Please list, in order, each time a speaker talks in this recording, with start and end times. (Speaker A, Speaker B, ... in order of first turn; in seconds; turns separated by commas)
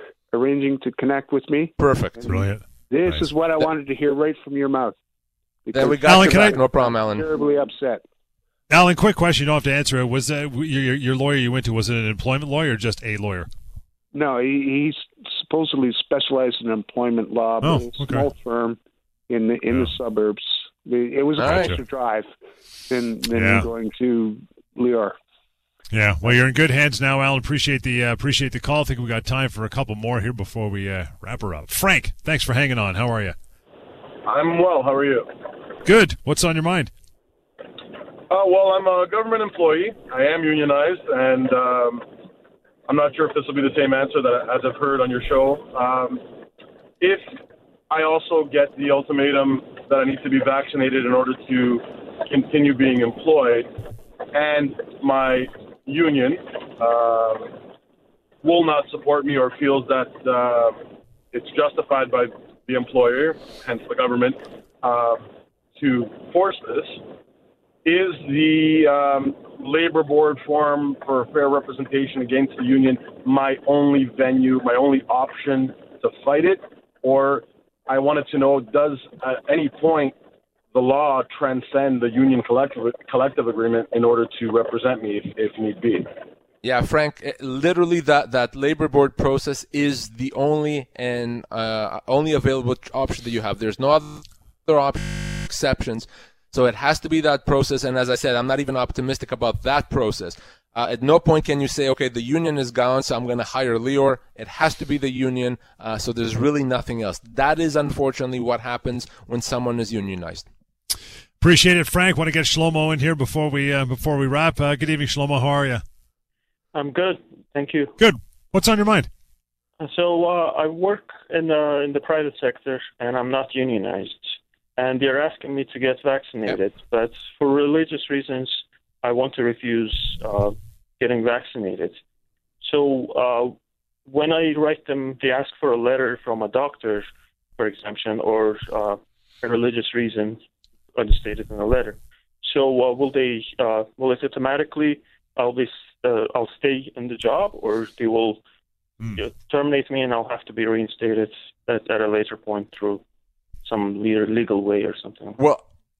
Speaker A: 0.3-5.0, Speaker B: 1.8-2.2, Speaker C: 2.2-3.3, Speaker A: 5.7-8.0, Speaker B: 5.7-7.3, Speaker C: 6.0-6.6, Speaker C: 8.7-13.5, Speaker A: 14.1-22.3, Speaker C: 17.6-18.3, Speaker C: 21.4-21.8, Speaker B: 21.4-21.7, Speaker A: 22.9-25.2, Speaker C: 23.3-23.7, Speaker C: 25.9-33.4, Speaker D: 34.2-35.3, Speaker C: 35.8-36.9, Speaker D: 38.3-42.1, Speaker D: 42.9-46.3, Speaker D: 47.0-47.3, Speaker D: 47.9-53.7, Speaker D: 54.3-57.5, Speaker D: 58.4-60.8, Speaker D: 61.3-67.0, Speaker D: 67.8-80.2, Speaker D: 80.7-86.1, Speaker B: 86.6-110.5, Speaker C: 111.4-115.8, Speaker E: 116.7-117.9, Speaker C: 118.0-119.1, Speaker E: 119.8-132.0, Speaker E: 132.6-137.1, Speaker E: 137.6-140.4, Speaker E: 141.0-148.4, Speaker E: 149.1-153.0, Speaker E: 153.6-155.4, Speaker B: 155.4-155.6